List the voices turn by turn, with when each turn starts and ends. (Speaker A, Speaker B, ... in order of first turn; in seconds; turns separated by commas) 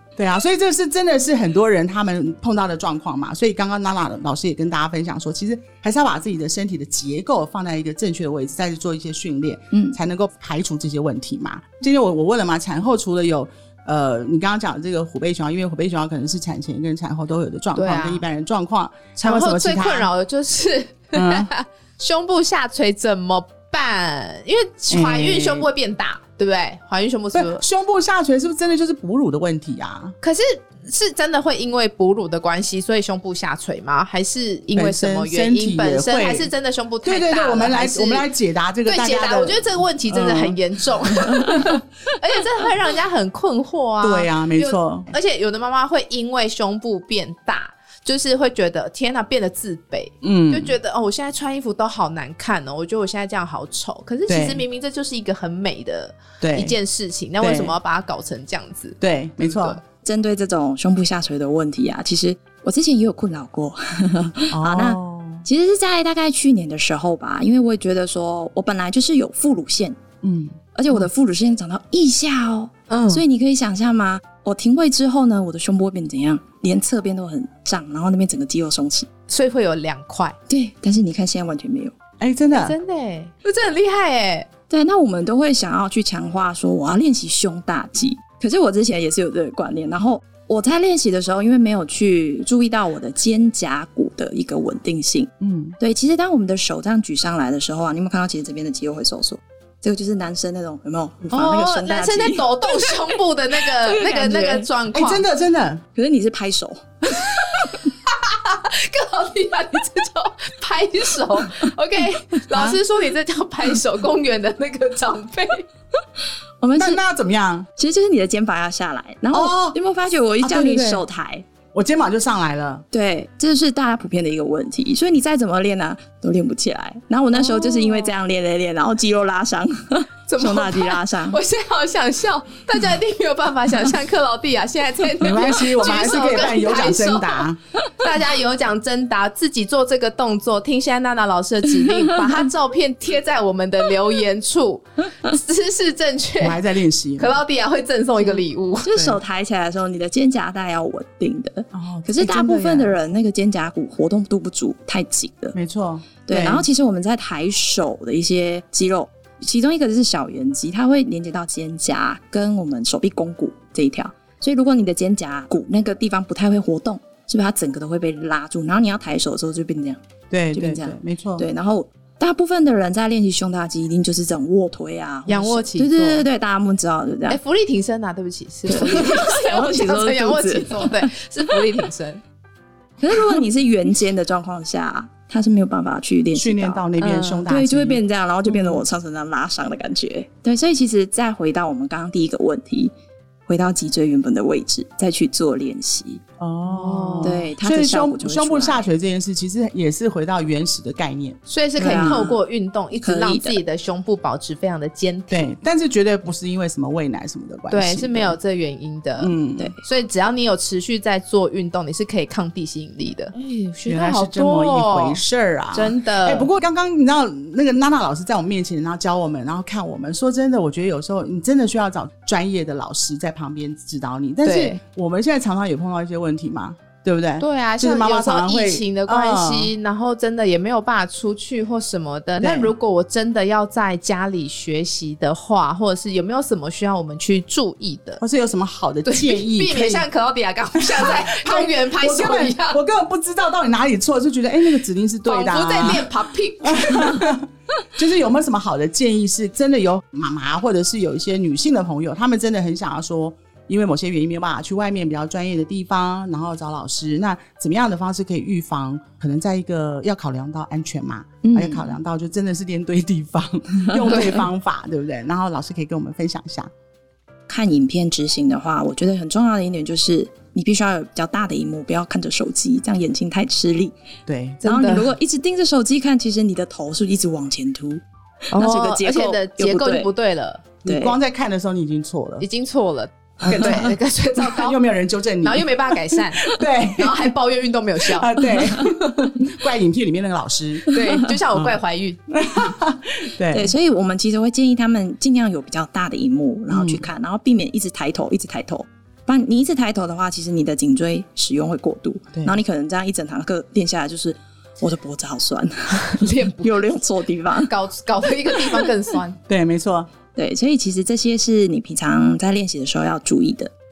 Speaker A: 0.2-20.1, Speaker B: 9.7-10.0, Speaker C: 17.8-18.2, Speaker C: 19.2-27.6, Speaker A: 21.1-21.5, Speaker A: 24.9-25.7, Speaker A: 27.3-30.1, Speaker C: 30.2-38.3, Speaker A: 34.8-36.5, Speaker A: 37.0-41.6, Speaker C: 38.9-59.8, Speaker A: 44.0-45.1, Speaker A: 50.2-50.8, Speaker A: 54.3-54.6, Speaker A: 56.4-56.8, Speaker A: 57.4-57.8, Speaker A: 59.0-59.8, Speaker B: 60.0-70.0, Speaker A: 64.5-65.4, Speaker A: 70.2-71.1, Speaker B: 70.8-79.1, Speaker C: 72.9-73.2, Speaker C: 79.3-80.4, Speaker B: 80.5-81.9, Speaker A: 82.2-82.8, Speaker C: 82.5-84.5, Speaker B: 84.7-104.7, Speaker A: 95.4-95.8, Speaker C: 101.3-105.2, Speaker A: 104.9-105.8, Speaker B: 105.9-107.5, Speaker C: 107.2-115.6, Speaker A: 112.5-112.8, Speaker B: 116.6-117.0, Speaker A: 116.8-117.7, Speaker B: 117.8-121.4, Speaker A: 119.3-119.8, Speaker A: 120.4-121.0, Speaker A: 121.7-122.8, Speaker B: 122.9-131.4, Speaker C: 127.5-128.1, Speaker C: 130.3-146.6, Speaker A: 135.2-137.6, Speaker B: 141.8-142.3, Speaker A: 146.4-147.4, Speaker C: 147.2-149.0, Speaker B: 148.2-155.6, Speaker A: 148.9-149.2, Speaker A: 151.7-153.0, Speaker A: 155.5-156.7, Speaker B: 156.2-170.0, Speaker A: 170.3-171.5, Speaker B: 170.5-177.4, Speaker C: 175.3-176.3, Speaker C: 177.3-182.2, Speaker B: 178.7-181.6, Speaker B: 183.0-192.9, Speaker A: 186.3-188.8, Speaker B: 193.5-196.2, Speaker A: 196.4-202.3, Speaker C: 196.7-197.4, Speaker B: 197.2-198.9, Speaker C: 201.5-205.5, Speaker B: 201.8-202.4, Speaker B: 203.0-203.6, Speaker A: 205.3-208.4, Speaker C: 207.7-215.2, Speaker A: 209.2-209.8, Speaker A: 213.8-229.7, Speaker C: 215.7-216.5, Speaker C: 224.4-224.8, Speaker C: 227.4-238.2, Speaker A: 232.4-232.7, Speaker A: 238.2-240.1, Speaker C: 239.1-242.8, Speaker A: 240.8-246.1, Speaker C: 245.2-247.3, Speaker A: 246.6-266.7, Speaker B: 261.4-261.9, Speaker B: 264.0-264.4, Speaker B: 267.5-273.9, Speaker A: 274.3-274.6, Speaker C: 274.6-275.1, Speaker B: 274.6-280.1, Speaker C: 278.5-280.6, Speaker A: 280.8-282.4, Speaker B: 280.9-281.2, Speaker C: 282.4-284.8, Speaker A: 283.4-287.3, Speaker B: 283.4-283.9, Speaker C: 285.4-288.3, Speaker A: 288.1-290.9, Speaker B: 288.5-288.8, Speaker C: 290.9-292.2, Speaker A: 291.5-291.8, Speaker A: 292.3-293.7, Speaker B: 293.5-307.7, Speaker A: 296.7-297.1, Speaker C: 306.1-306.9, Speaker C: 307.5-309.4, Speaker B: 308.5-308.9, Speaker A: 309.5-310.1, Speaker B: 310.4-313.7